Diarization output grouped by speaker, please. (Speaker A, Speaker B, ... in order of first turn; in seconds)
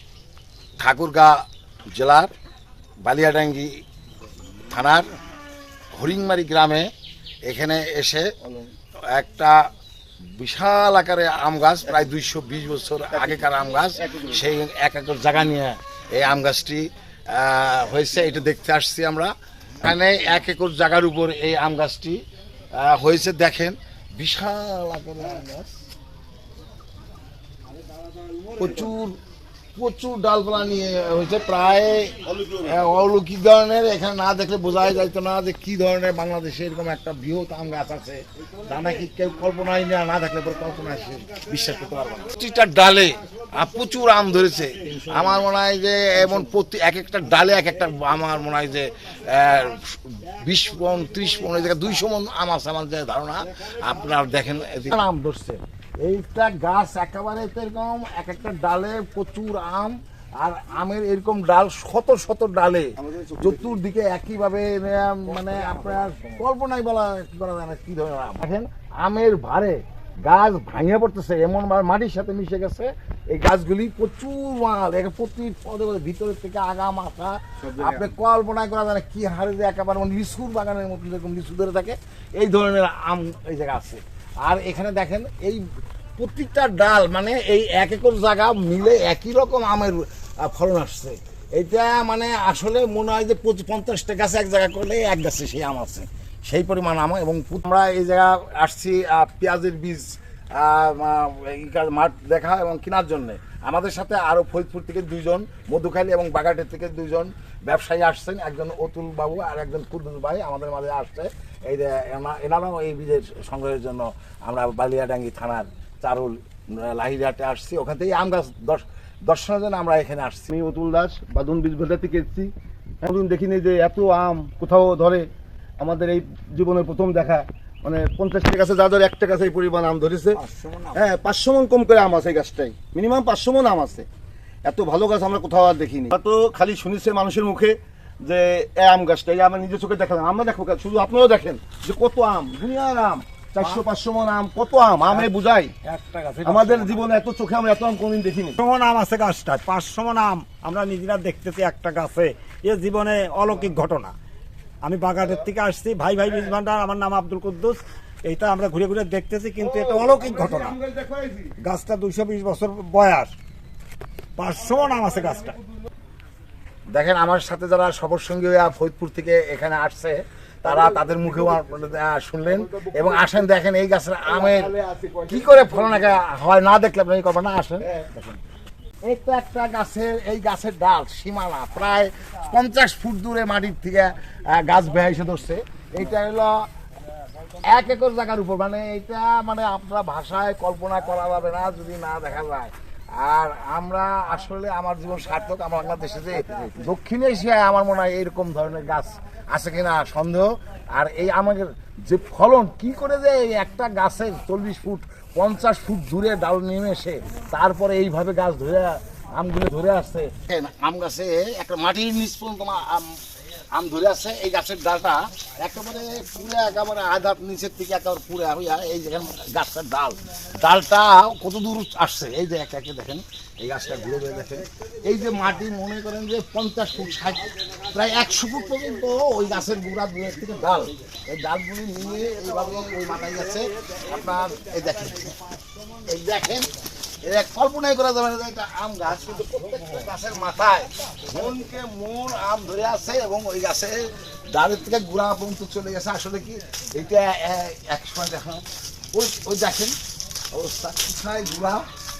Speaker A: 0.8-1.3, 1.9-2.3, 3.0-3.7, 4.7-5.0, 6.0-6.9, 7.5-8.3, 9.1-9.6, 10.4-22.2, 22.7-25.7, 28.6-29.2, 29.8-85.6, 86.2-120.5, 130.3-131.0, 145.8-147.0, 166.9-174.7, 175.3-178.4, 179.0-186.6, 187.6-213.2, 213.7-235.5, 236.1-236.7, 237.2-249.9, 250.5-251.8
Speaker B: 13.2-13.5, 14.0-14.4, 32.2-32.8, 63.0-63.8, 65.4-66.0, 77.6-78.1, 120.5-122.5, 123.0-125.3, 125.8-130.4, 130.9-134.1, 134.6-145.7, 146.4-148.6, 159.6-161.5, 170.7-171.7, 172.4-173.5, 174.2-176.2
Speaker C: 148.6-154.1, 154.8-160.7, 161.6-163.3, 164.4-165.6